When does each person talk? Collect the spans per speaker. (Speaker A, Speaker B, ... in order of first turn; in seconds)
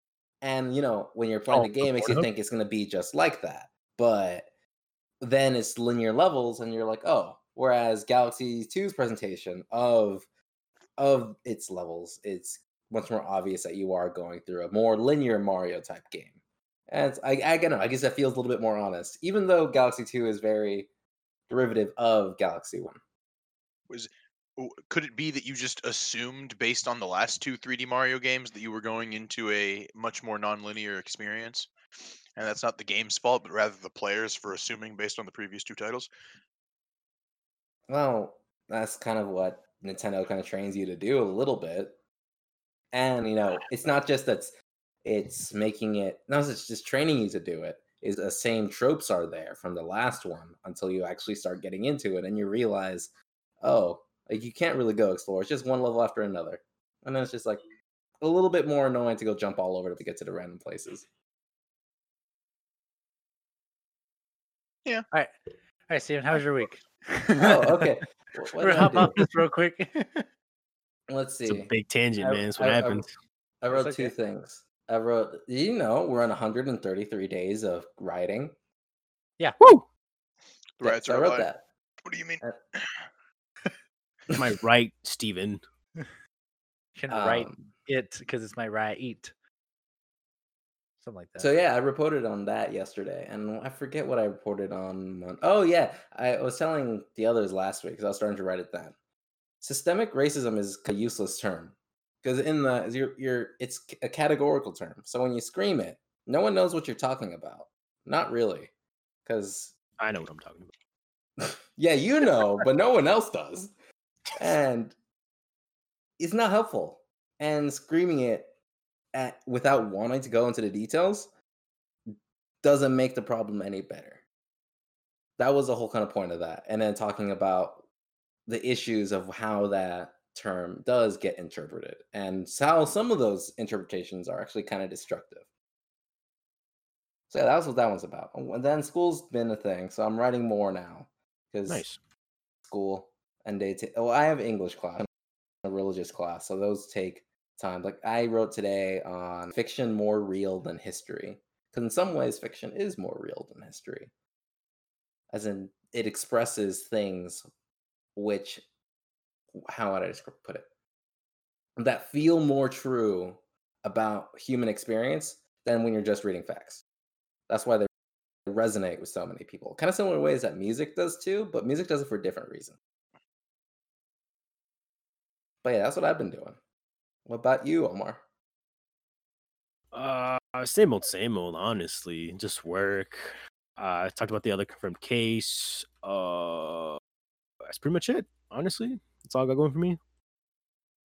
Speaker A: 0.4-4.5, 5.2-10.3, 11.0-16.4, 16.9-20.9, 21.5-23.0, 37.9-42.0, 42.9-44.5, 45.0-57.6, 58.2-61.1, 67.4-69.2, 71.1-73.0, 73.6-78.5, 80.8-81.6, 87.1-87.7, 91.4-99.0, 99.6-108.7, 109.2-109.7, 111.4-113.7, 114.4-115.0, 116.2-118.5, 119.1-121.3, 122.6-124.2, 125.4-127.8, 128.5-135.4, 137.3-141.8, 142.6-145.1, 145.6-154.1, 155.3-157.4, 158.2-158.6, 159.6-160.7, 161.8-166.8, 167.5-167.9, 168.5-172.8, 175.6-176.6, 177.3-178.2
Speaker B: 1.5-2.2, 23.9-31.7, 32.4-36.1, 80.8-81.5, 82.0-83.0
Speaker C: 65.9-67.9, 68.6-70.3, 73.7-74.1, 87.0-89.3, 91.0-91.5
Speaker D: 71.5-73.1, 79.6-79.8, 84.3-85.6, 110.0-110.7, 141.7-142.0, 179.9-187.0, 187.7-190.0